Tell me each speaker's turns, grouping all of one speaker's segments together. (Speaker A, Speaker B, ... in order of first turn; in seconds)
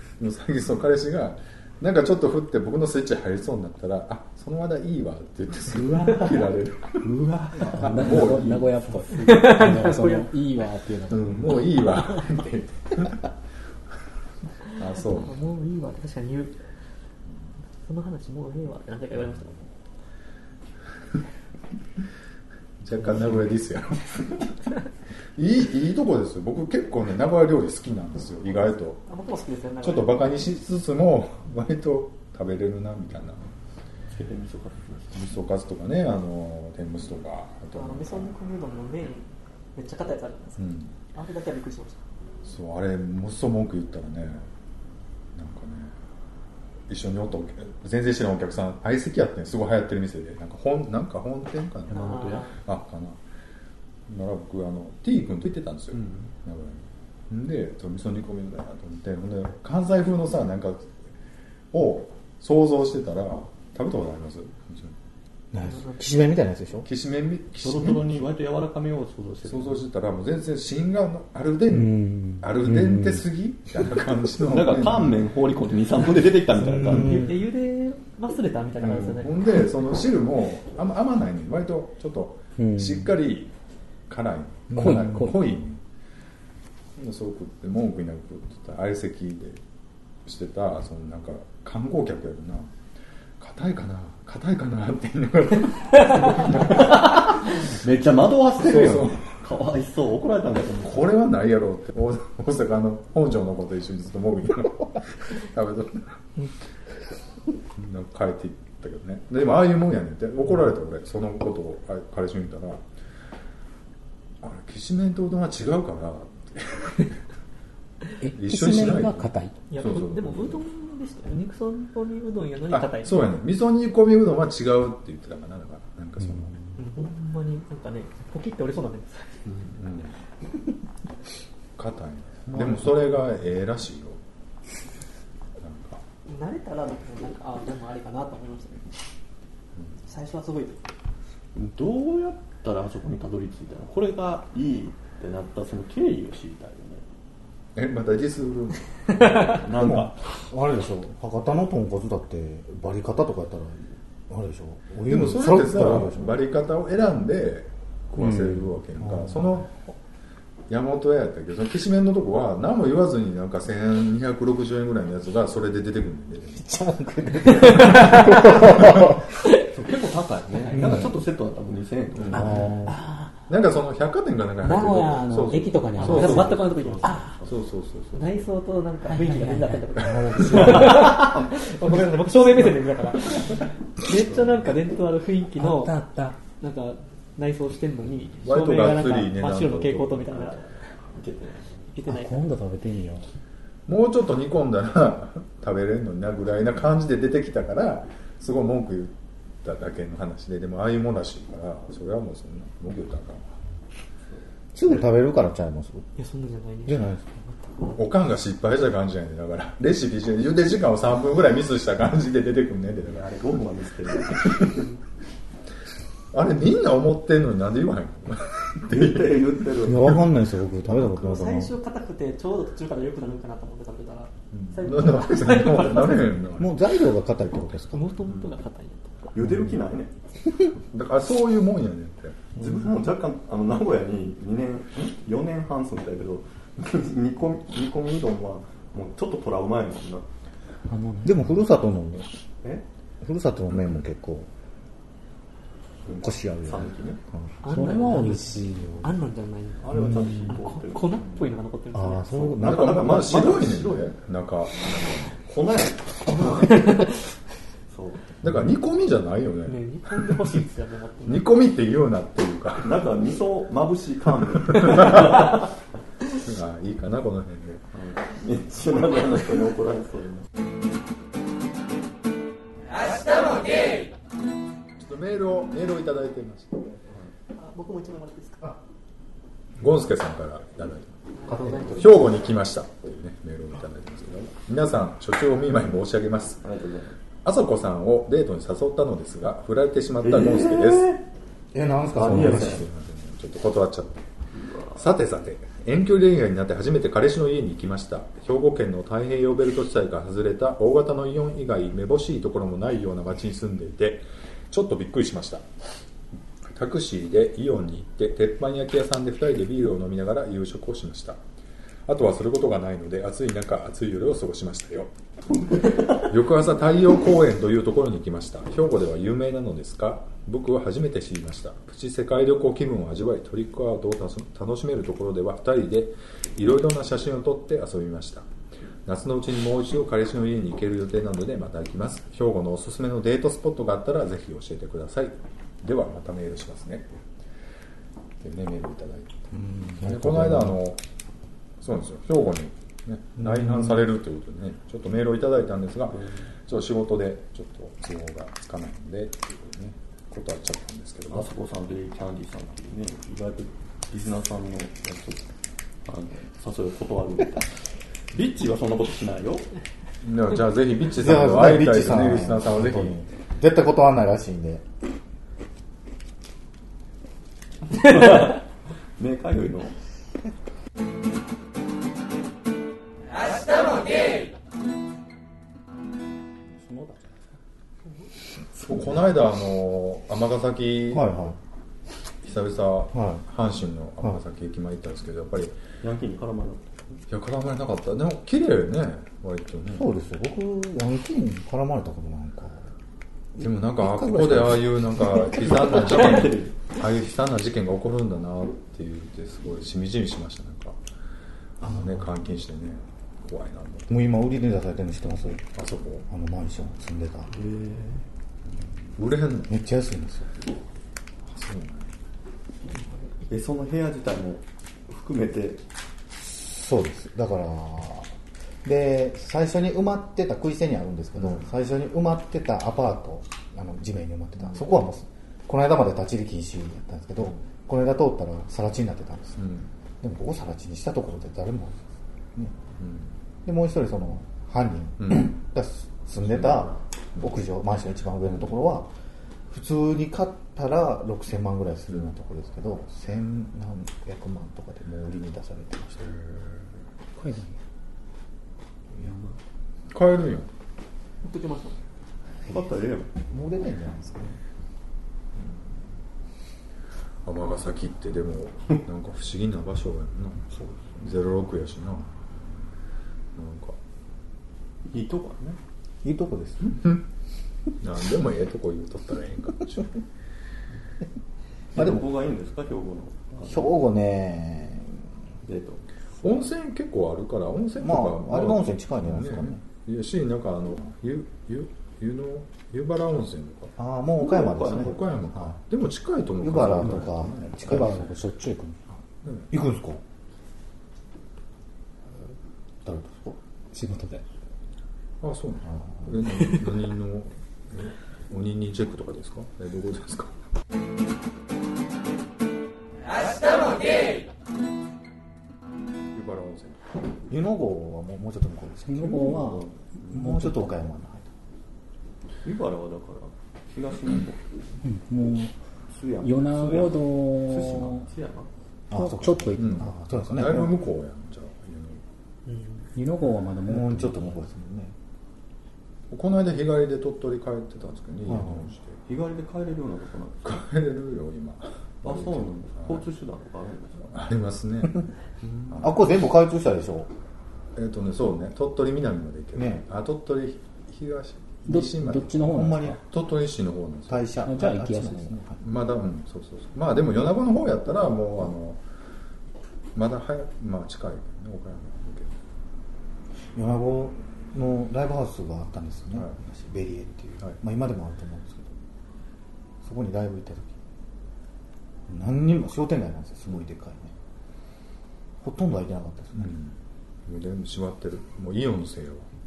Speaker A: 0.2-7.0, 7.7-8.6, 11.1-13.2, 14.7-15.3, 22.8-24.5, 25.4-29.0, 29.8-33.5, 35.1-38.3, 40.6-40.9, 42.5-44.5, 45.4-46.0, 46.9-53.2, 54.1-61.0, 61.7-65.0, 66.9-68.2, 69.5-75.1, 78.8-83.5, 84.1-85.8, 87.0-89.6, 90.2-92.7, 93.4-97.3, 98.6-99.2, 100.8-106.2, 107.7-112.8, 114.4-117.2, 118.3-120.6, 122.7-126.6, 129.6-130.2, 131.8-134.2, 135.6-136.0, 147.8-149.6, 155.1-159.8, 160.7-166.7, 168.3-168.8, 172.2-172.7, 173.5-176.7, 177.4-178.3, 188.4-190.3, 193.9-203.6, 208.0-213.2, 214.4-214.7, 216.3-219.4, 224.5-226.8, 230.8-232.5, 252.6-255.3, 258.4-259.8, 261.3-263.1, 264.7-265.5, 266.4-267.9, 275.0-277.0, 279.8-286.6, 287.4-291.2, 292.2-294.2, 294.9-305.6, 306.7-311.4, 312.1-315.1, 316.1-328.5, 329.1-337.2, 338.4-341.0, 341.8-351.5, 360.2-363.2, 378.6-381.3, 382.4-385.8, 387.3-390.1, 393.6-401.0, 401.8-404.2, 405.7-406.2, 409.2-409.7, 411.5-412.1, 429.6-429.9, 433.0-433.3, 435.2-435.5, 436.4-437.4, 446.3-446.8, 450.1-450.7, 457.4-462.3, 463.6-464.0, 466.9-467.2, 468.0-470.2, 476.4-483.9, 485.0-488.2, 489.4-489.7, 495.4-500.6, 506.3-507.1, 519.8-522.2, 526.3-529.2, 530.6-533.2, 534.3-535.3, 535.8-536.1, 538.0-544.5, 545.8-549.0, 550.1-552.5, 566.6-569.5
Speaker B: 5.7-9.7, 34.1-35.2, 51.9-52.5, 55.9-56.3, 67.6-69.8, 74.4-77.3, 96.5-101.2, 132.5-132.9, 141.6-147.1, 149.3-150.2, 169.6-172.5, 176.6-177.5, 180.9-181.3, 190.3-191.9, 213.1-214.8, 218.8-220.2, 229.3-230.1, 232.6-240.3, 246.1-247.2, 249.8-251.3, 252.6-254.1, 255.4-257.2, 257.9-258.4, 262.8-265.7, 267.9-270.5, 286.6-287.2, 290.2-291.2, 292.2-292.9, 294.6-295.0, 346.1-346.5, 351.3-355.5, 356.1-357.8, 358.3-359.7, 367.9-368.7, 369.2-369.9, 386.0-387.2, 395.5-396.8, 407.5-408.2, 413.5-415.8, 449.2-449.5, 452.6-453.3, 460.7-461.1, 465.1-465.8, 471.9-473.9, 475.6-476.1, 484.4-485.2, 512.6-514.7, 516.1-518.7, 529.3-530.8, 532.2-534.4, 535.7-536.0
Speaker C: 7.6-11.5, 71.7-73.2, 82.6-83.1, 84.7-85.4, 118.2-119.6, 126.2-126.7, 158.2-158.7, 166.7-169.3, 172.3-173.4, 174.6-177.3, 179.1-181.2, 185.6-186.4, 192.1-193.3, 240.9-241.5, 247.6-249.1, 376.7-377.3, 447.3-447.8, 487.8-489.0, 493.9-494.4, 509.0-511.1, 515.0-515.8, 516.4-518.3, 519.1-520.1, 523.1-524.6, 541.9-543.2, 544.6-545.7
Speaker D: 9.2-10.3, 15.0-16.6, 17.8-19.7, 29.1-30.2, 37.7-40.6, 41.1-42.0, 51.9-52.5, 65.7-66.1, 76.9-79.5, 119.7-123.3, 126.8-129.4, 136.3-138.9, 140.0-140.8, 167.8-168.4, 176.0-177.3, 178.1-186.0, 186.5-190.9, 191.9-192.4, 206.2-208.0, 220.9-226.4, 227.9-229.3, 247.6-252.6, 256.5-257.2, 259.7-261.5, 277.6-278.8, 281.4-282.0, 412.9-413.3, 451.4-452.0, 522.7-523.0
Speaker E: 65.5-66.9, 76.9-77.3, 149.8-156.4, 159.0-159.6, 172.5-172.9, 180.0-180.9, 204.7-206.1, 206.9-207.4, 219.8-221.7, 226.6-228.1, 241.2-242.3, 243.2-244.5, 246.1-247.5, 251.9-253.1, 281.5-282.4, 291.7-292.9, 339.5-340.8, 343.4-343.9, 361.1-364.8, 381.1-381.6, 383.1-383.4, 389.9-392.9, 393.6-395.2, 401.8-402.3, 404.1-405.7, 406.3-407.6, 409.7-410.7, 416.4-418.3, 418.8-429.7, 430.2-432.8, 433.6-439.1, 439.7-446.4, 453.5-454.6, 466.2-467.0, 471.9-472.2, 473.7-475.3, 478.0-479.8, 484.0-485.8, 486.6-488.3, 489.7-490.2, 493.0-493.6, 495.9-496.4, 507.5-511.5, 519.1-521.0, 523.9-525.1, 528.5-528.9, 536.0-537.3, 539.8-540.0, 542.6-543.2, 544.3-545.8, 553.7-559.0, 560.0-561.0, 562.3-564.4, 565.6-566.8